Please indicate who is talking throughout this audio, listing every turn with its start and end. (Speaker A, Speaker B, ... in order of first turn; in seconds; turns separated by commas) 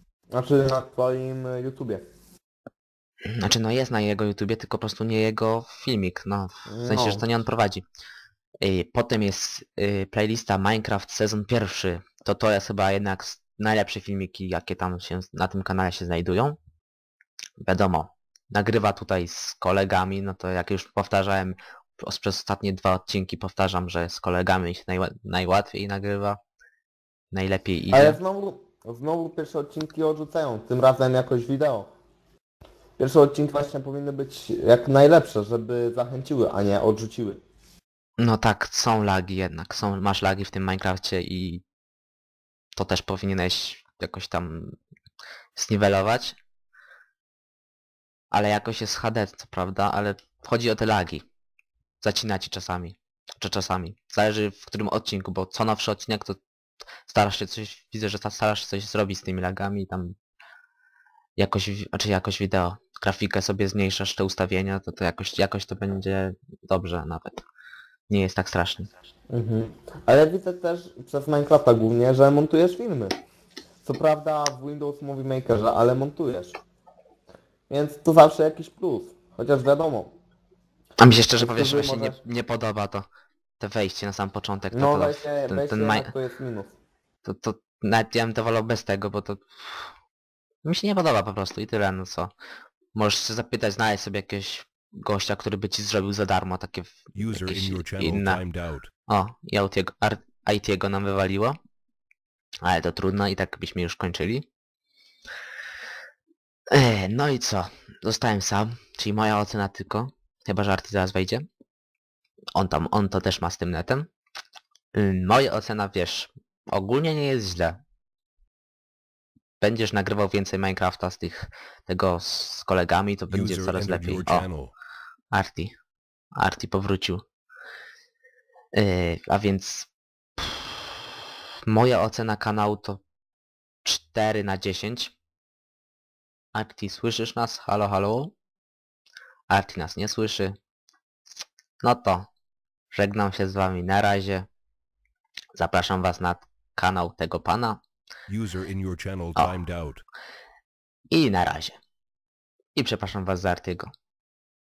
Speaker A: 0.3-2.0, Speaker B: 3.3-7.8, Speaker A: 6.7-7.3, Speaker B: 8.6-16.6, Speaker B: 17.6-26.4, Speaker B: 27.3-28.2, Speaker A: 27.9-31.9, Speaker A: 33.0-37.4, Speaker B: 38.2-41.6, Speaker B: 42.8-44.7, Speaker B: 45.5-46.4, Speaker B: 48.3-51.2, Speaker B: 52.0-56.4, Speaker B: 57.1-60.1, Speaker B: 61.4-67.4, Speaker B: 68.1-68.9, Speaker A: 69.3-73.1, Speaker A: 73.8-76.6, Speaker A: 77.7-80.1, Speaker B: 81.0-83.0, Speaker A: 81.4-82.2, Speaker B: 83.6-86.1, Speaker A: 84.7-86.7, Speaker B: 87.2-89.9, Speaker B: 90.6-92.3, Speaker B: 92.9-98.4, Speaker C: 97.1-98.9, Speaker B: 99.1-101.6, Speaker B: 102.6-104.5, Speaker B: 106.7-111.5, Speaker B: 112.5-114.1, Speaker B: 114.9-117.8, Speaker B: 119.6-124.5, Speaker C: 123.3-124.7, Speaker B: 125.3-125.7, Speaker B: 126.3-127.2, Speaker B: 128.7-130.8, Speaker B: 131.7-133.0, Speaker B: 133.8-135.1, Speaker B: 136.5-138.3, Speaker B: 139.5-140.6, Speaker B: 141.8-142.3, Speaker B: 142.9-144.5, Speaker B: 145.5-147.8, Speaker C: 148.3-150.0, Speaker B: 151.1-151.8, Speaker B: 152.8-153.9